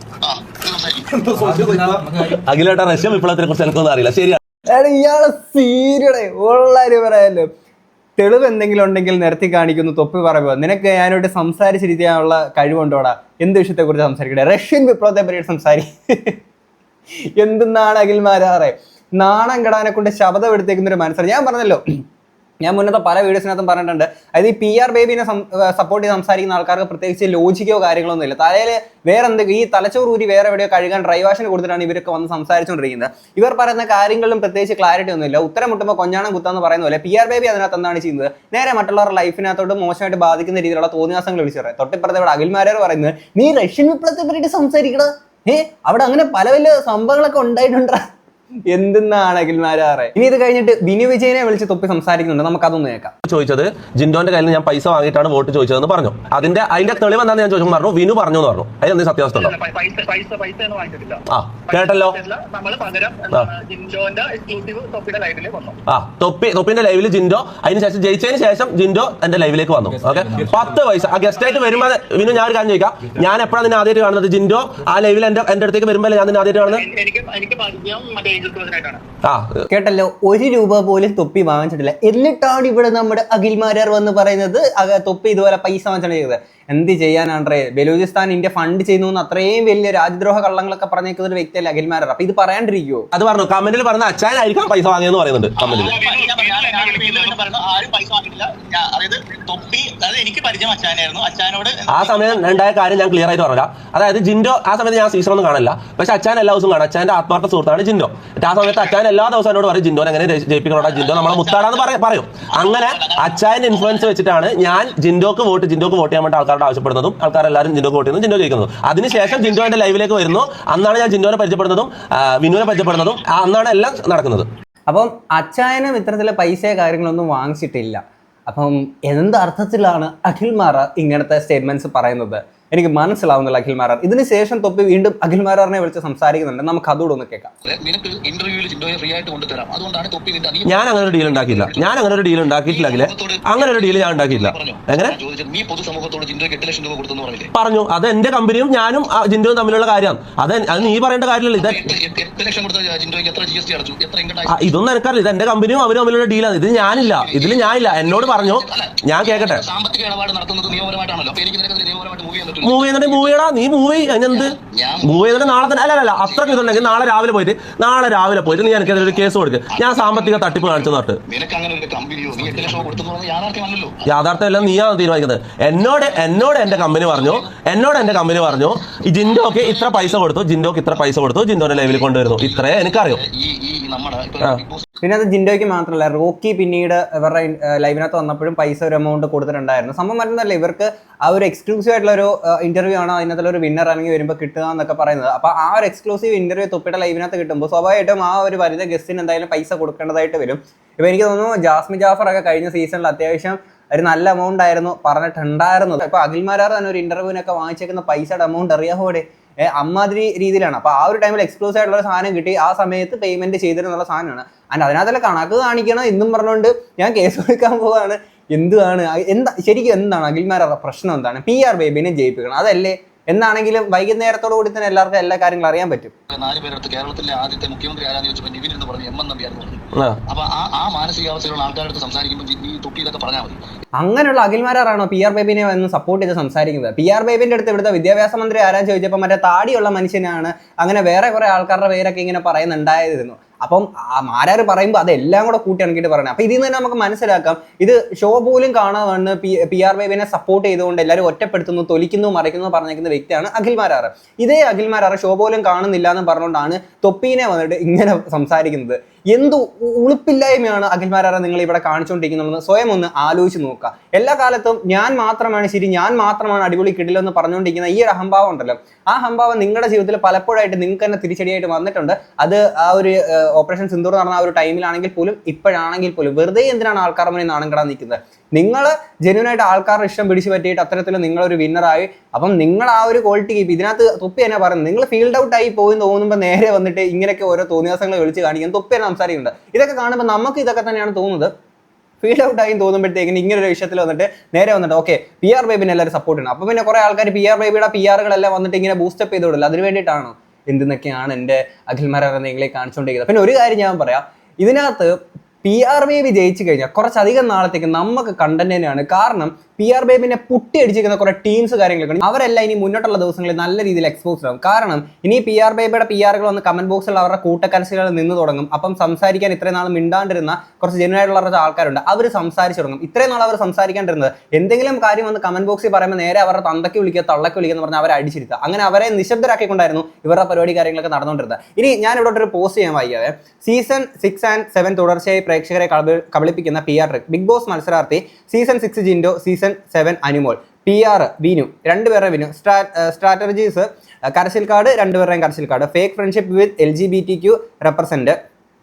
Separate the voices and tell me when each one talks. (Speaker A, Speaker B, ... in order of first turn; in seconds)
Speaker A: 0.2-1.3, 95.6-97.7, 110.9-111.8, 112.5-113.4, 119.2-119.6, 137.6-147.5, 151.6-154.7, 156.9-163.2, 164.3-165.3, 166.2-166.8, 169.7-174.0, 176.9-177.4, 181.7-184.8, 226.3-233.6
Speaker B: 1.2-2.0, 4.7-7.5, 8.2-16.4, 17.4-21.8, 22.6-48.0, 48.7-53.1, 79.7-93.1, 124.9-137.5, 185.0-226.1, 234.0-291.5, 292.2-305.1, 305.6-348.4
Speaker C: 1.7-4.4, 53.2-59.5, 61.3-62.1, 65.9-76.8, 79.2-79.6, 93.1-96.0, 101.9-124.5, 140.7-145.2, 147.5-151.9, 154.5-159.6, 162.6-171.2, 174.0-183.2
Speaker D: 59.4-65.8, 76.7-79.0, 95.7-101.8